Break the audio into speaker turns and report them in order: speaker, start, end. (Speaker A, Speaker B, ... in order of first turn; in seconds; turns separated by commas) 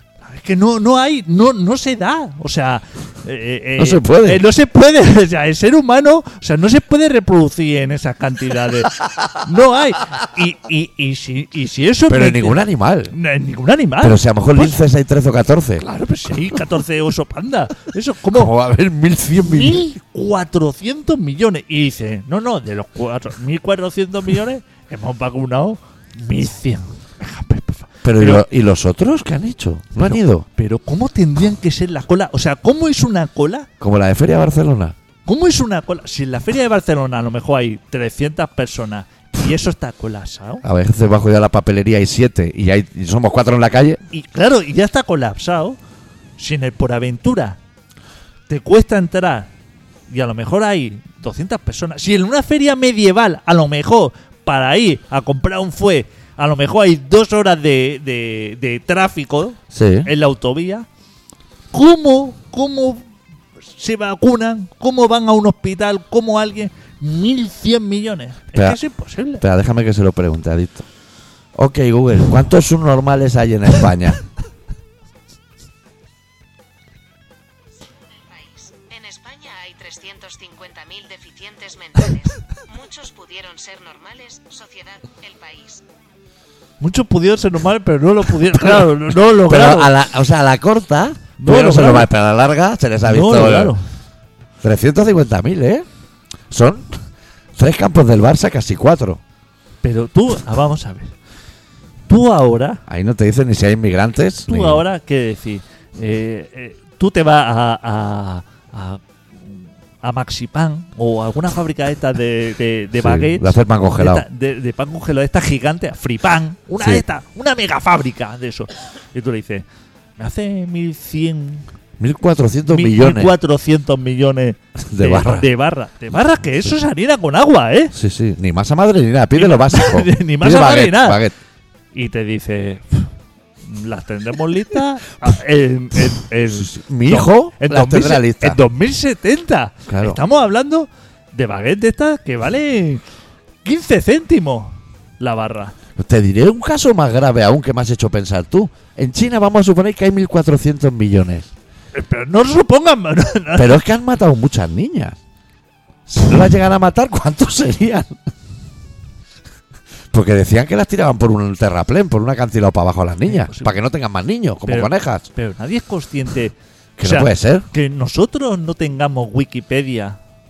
Speaker A: 0.2-12.6, Speaker B: 3.8-4.4, Speaker B: 12.1-13.1, Speaker A: 13.1-14.8, Speaker B: 14.0-15.8, Speaker A: 15.8-18.5, Speaker B: 18.3-19.8, Speaker A: 19.4-28.4, Speaker B: 28.0-30.4, Speaker A: 30.0-33.7, Speaker B: 33.8-34.9, Speaker A: 35.2-40.6, Speaker B: 40.6-44.0, Speaker A: 44.1-45.8, Speaker A: 46.4-47.6, Speaker A: 48.5-49.5, Speaker A: 50.1-60.9, Speaker B: 59.7-60.1, Speaker A: 61.7-63.1, Speaker A: 63.7-69.4, Speaker B: 68.5-68.8, Speaker B: 69.4-70.8, Speaker B: 71.5-74.2, Speaker C: 78.1-85.8, Speaker A: 86.8-89.9, Speaker B: 89.4-93.7, Speaker A: 91.4-92.1, Speaker A: 93.0-93.8, Speaker B: 94.6-95.8, Speaker B: 96.5-97.0, Speaker B: 97.5-99.2, Speaker A: 99.8-101.1, Speaker A: 102.1-102.8, Speaker B: 102.9-104.8, Speaker A: 104.5-119.6, Speaker B: 113.0-114.2, Speaker A: 120.2-121.7, Speaker B: 122.0-123.3, Speaker A: 122.7-127.9, Speaker B: 124.8-125.5, Speaker B: 127.9-131.3, Speaker A: 129.3-131.2, Speaker A: 131.9-133.1, Speaker A: 133.6-143.0, Speaker B: 136.5-138.6, Speaker B: 139.9-140.2, Speaker A: 143.6-145.7, Speaker B: 145.9-151.5, Speaker A: 151.9-153.8, Speaker B: 153.6-155.2, Speaker B: 156.1-158.2, Speaker B: 160.1-165.2, Speaker A: 163.2-163.7, Speaker A: 164.7-170.2, Speaker B: 167.0-167.7